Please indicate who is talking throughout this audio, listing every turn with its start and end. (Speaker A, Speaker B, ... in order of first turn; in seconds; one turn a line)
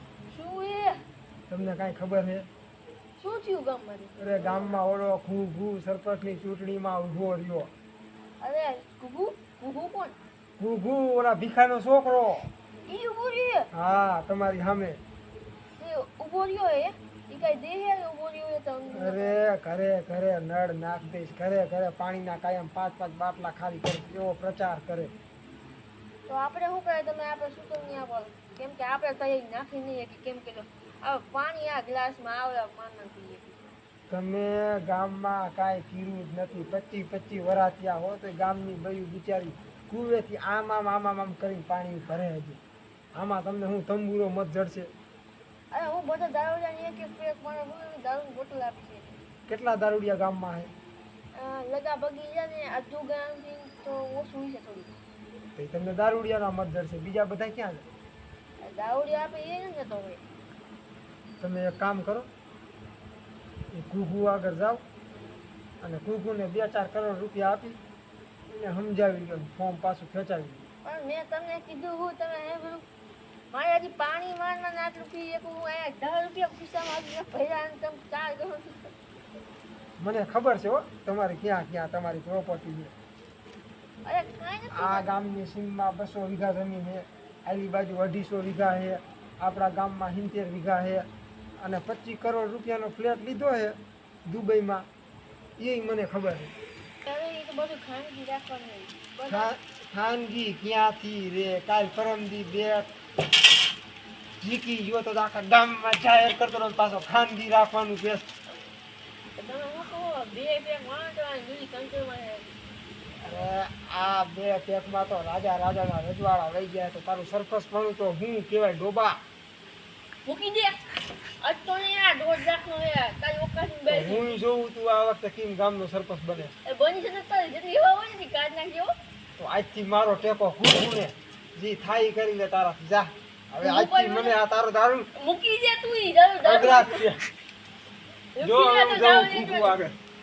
Speaker A: 0.3-1.0
Speaker B: 1.5-2.5
Speaker A: 3.2-4.8
Speaker B: 4.2-7.7
Speaker A: 8.4-10.2
Speaker B: 10.6-12.5
Speaker A: 12.9-13.7
Speaker B: 13.7-15.0
Speaker A: 15.8-19.4
Speaker B: 18.9-25.1
Speaker A: 26.3-33.7
Speaker B: 34.1-42.6
Speaker B: 43.1-44.9
Speaker A: 45.7-49.2
Speaker B: 49.5-50.7
Speaker A: 51.3-54.9
Speaker B: 55.6-57.9
Speaker A: 58.6-60.2
Speaker B: 61.4-62.3
Speaker B: 63.7-64.8
Speaker B: 65.8-67.8
Speaker B: 68.5-70.7
Speaker A: 70.8-72.8
Speaker A: 73.5-79.0
Speaker B: 80.0-82.9
Speaker A: 84.0-85.1
Speaker B: 84.7-91.1
Speaker B: 91.6-94.8
Speaker B: 95.6-96.5
Speaker A: 97.1-99.5
Speaker B: 99.3-102.9
Speaker B: 104.4-108.3
Speaker A: 109.4-112.5
Speaker B: 113.2-119.2
Speaker A: 120.2-120.8
Speaker A: 121.4-124.4
Speaker B: 123.9-126.5
Speaker A: 126.7-128.9
Speaker B: 129.4-135.1
Speaker A: 133.6-134.4
Speaker A: 135.2-137.1
Speaker B: 136.4-137.2
Speaker A: 138.4-139.8
Speaker B: 138.4-140.0